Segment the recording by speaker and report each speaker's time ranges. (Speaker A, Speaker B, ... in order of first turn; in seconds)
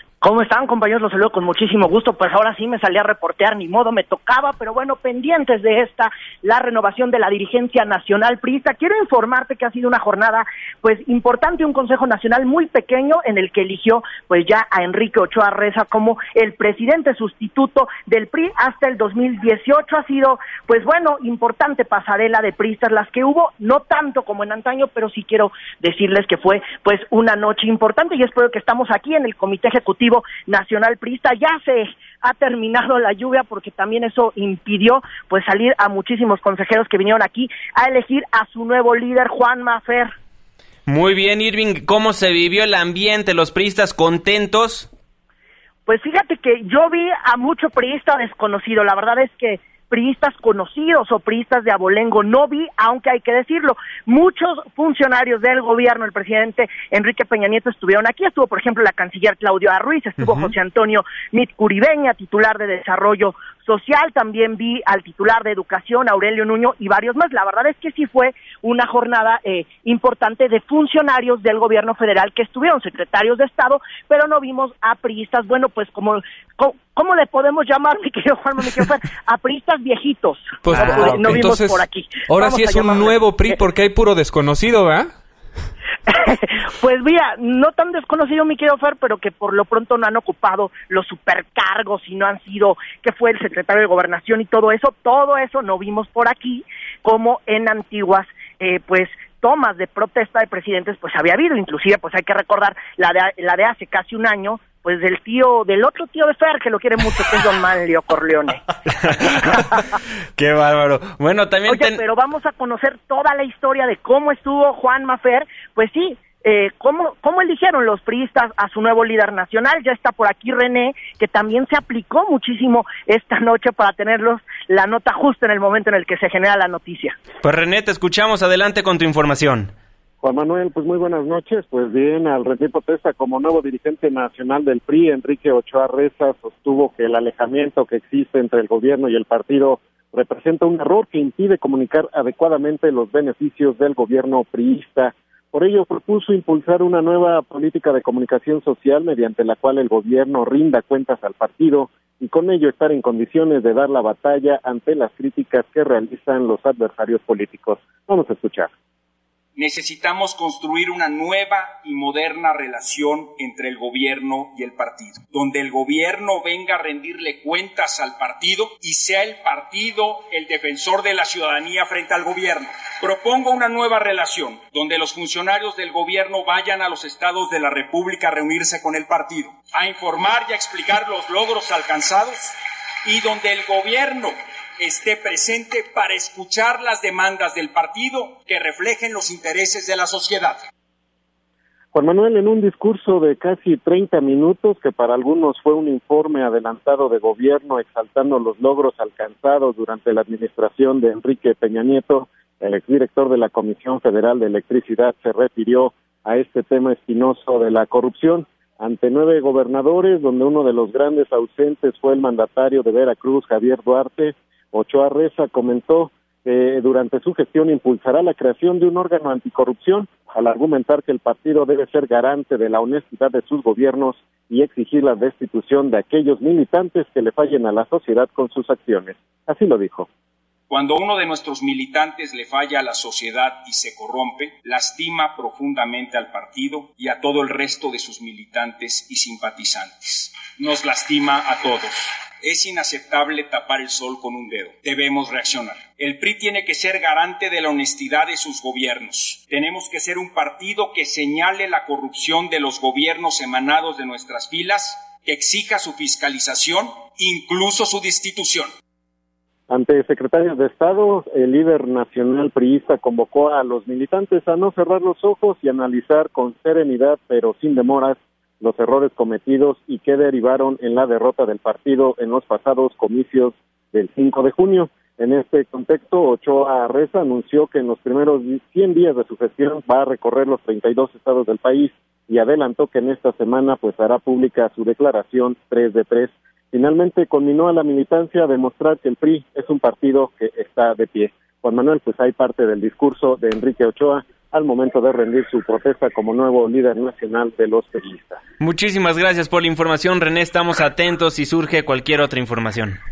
Speaker A: 0.2-40.1, 45.9-83.2, 86.1-108.6, 109.4-109.8, 111.7-127.2
Speaker B: 40.9-44.9, 60.2-60.5, 80.9-81.2, 109.0-109.6, 110.4-112.0, 127.4-129.7, 298.6-303.0
Speaker C: 80.6-85.1
Speaker D: 130.2-158.7, 191.9-230.1, 259.7-298.4
Speaker E: 159.6-190.7, 230.7-258.7